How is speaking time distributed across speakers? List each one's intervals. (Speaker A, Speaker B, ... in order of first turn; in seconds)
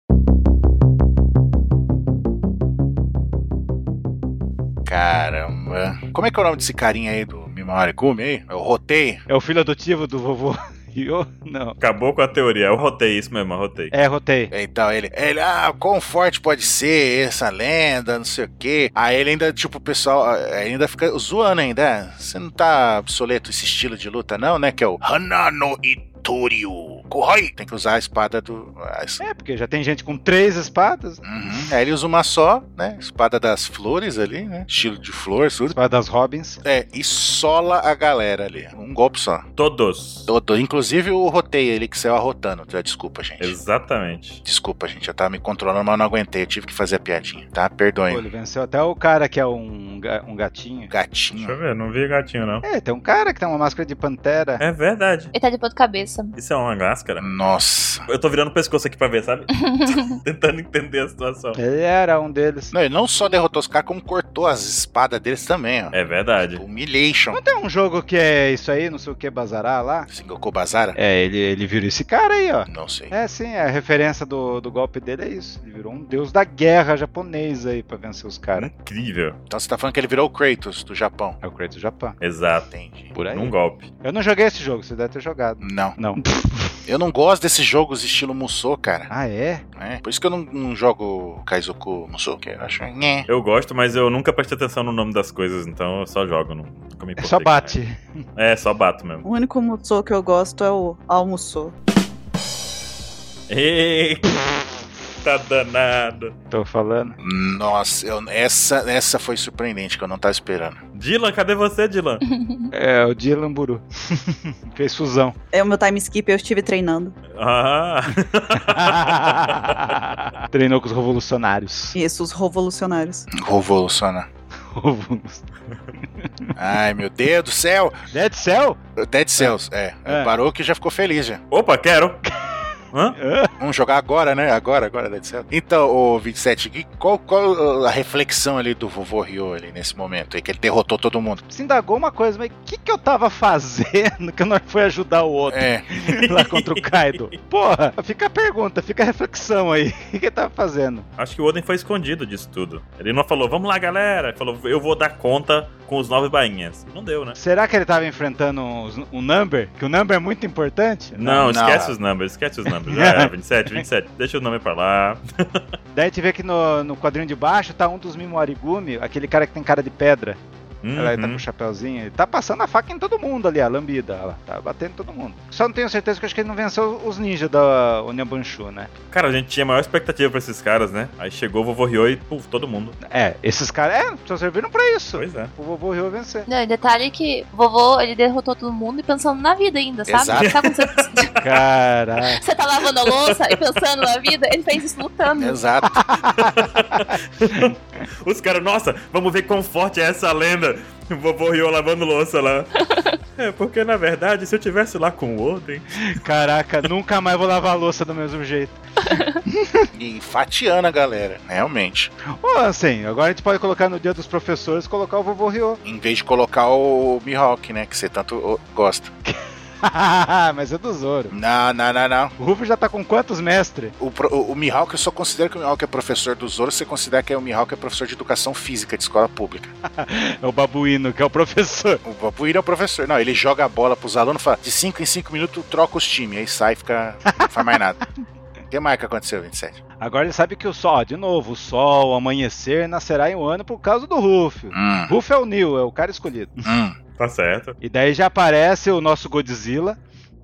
Speaker A: 4.9-9.2, 14.5-29.2, 31.2-35.8, 36.6-39.5, 40.3-43.6, 44.5-48.2, 50.9-51.6, 57.2-58.0, 62.7-67.4, 70.1-71.0, 72.7-73.1, 79.5-81.4, 82.7-83.1, 85.6-86.0, 86.9-89.1, 89.8-93.3, 107.2-110.8, 123.3-124.3, 126.6-128.0, 129.0-131.4, 133.6-141.4, 145.5-145.9, 161.4-161.9, 190.1-190.6, 195.3-196.1, 209.9-212.1, 215.8-219.1, 221.3-222.3, 224.0-229.7, 232.1-238.0, 238.7-239.8, 244.7-245.1, 246.7-247.0
Speaker B: 9.3-11.8, 13.9-14.5, 29.2-31.2, 35.7-36.6, 48.1-50.9, 52.6-54.6, 61.6-62.7, 67.3-70.1, 71.0-78.7, 81.4-82.2, 83.2-86.8, 89.1-89.6, 97.2-98.2, 106.5-107.2, 112.7-115.4, 118.5-122.0, 124.7-125.4, 126.0-126.5, 128.1-128.8, 129.4-130.3, 132.2-133.5, 141.5-151.1, 157.4-161.4, 162.7-163.8, 165.9-170.4, 170.9-178.9, 183.0-186.5, 191.4-192.4, 195.9-197.8, 206.0-208.8, 209.5-209.9, 212.3-215.8, 219.2-221.3, 222.4-223.9, 229.8-232.0, 237.3-237.8, 240.0-246.7, 247.8-250.0
Speaker C: 11.8-13.9, 39.6-40.3, 43.4-44.4, 51.4-52.6, 54.6-55.3, 56.4-57.3, 58.1-59.5, 60.1-61.6, 65.9-66.6, 78.6-79.4, 82.2-82.7, 83.3-83.9, 93.3-97.8, 98.4-99.2, 103.5-104.7, 105.2-106.3, 111.0-112.2, 117.3-119.8, 131.5-132.2, 146.1-146.9, 151.2-157.4, 161.2-165.6, 170.8-171.4, 179.1-183.0, 185.2-185.5, 190.3-191.3, 193.1-193.6, 196.3-202.7, 203.4-206.1, 247.2-247.8
Speaker D: 55.3-56.4, 59.6-60.2, 112.2-112.7, 186.5-191.4, 192.3-195.6, 202.8-203.2, 209.1-209.4
Speaker E: 99.2-101.7, 115.5-117.2, 121.9-123.3